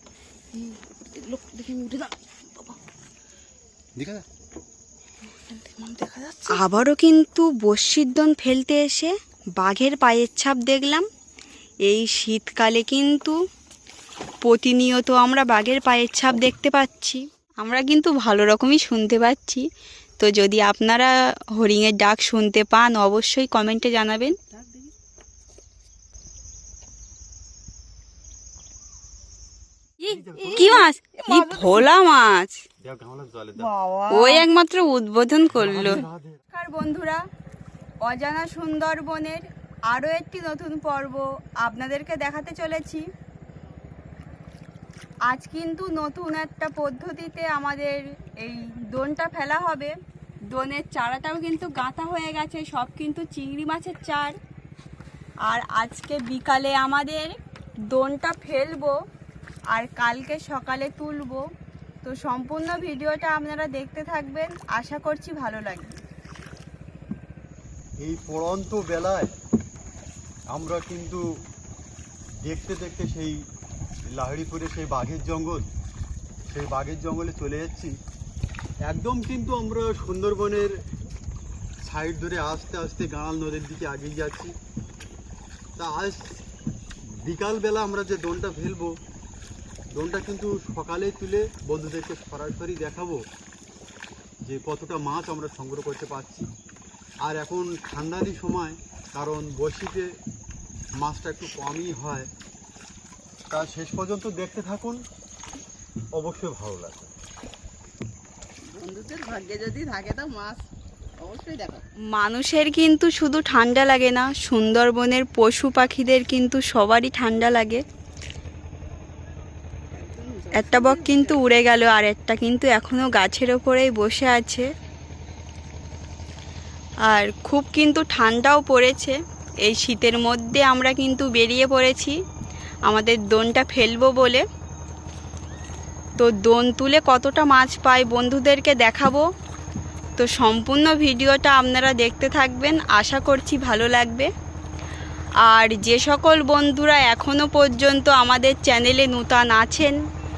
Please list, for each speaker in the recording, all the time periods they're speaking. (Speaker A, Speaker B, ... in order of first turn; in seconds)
Speaker A: 0.5-2.8, 5.2-6.8, 24.4-24.9, 30.3-31.9, 33.6-34.5, 108.7-110.7, 111.2-111.8, 119.9-121.5
Speaker B: 4.0-4.2, 30.0-30.9, 32.8-33.7, 35.5-36.4, 68.0-69.3, 70.5-71.2, 72.4-73.4, 74.0-75.7, 76.5-77.9, 78.8-80.7, 81.8-84.5, 85.8-86.2, 87.2-88.9, 89.9-93.2, 94.4-96.5, 97.2-100.1, 101.0-102.3, 103.5-105.0, 106.1-107.1
Speaker C: 6.5-11.1, 11.8-13.3, 14.4-19.6, 20.2-24.3, 30.0-32.5, 34.1-37.2, 38.0-43.0, 45.3-50.0, 50.5-54.3, 55.4-57.4, 57.9-59.0, 59.7-61.4, 62.0-66.0, 112.1-117.8, 120.6-124.7, 127.1-132.2, 132.9-134.4, 136.2-139.2, 140.2-144.3, 145.4-149.9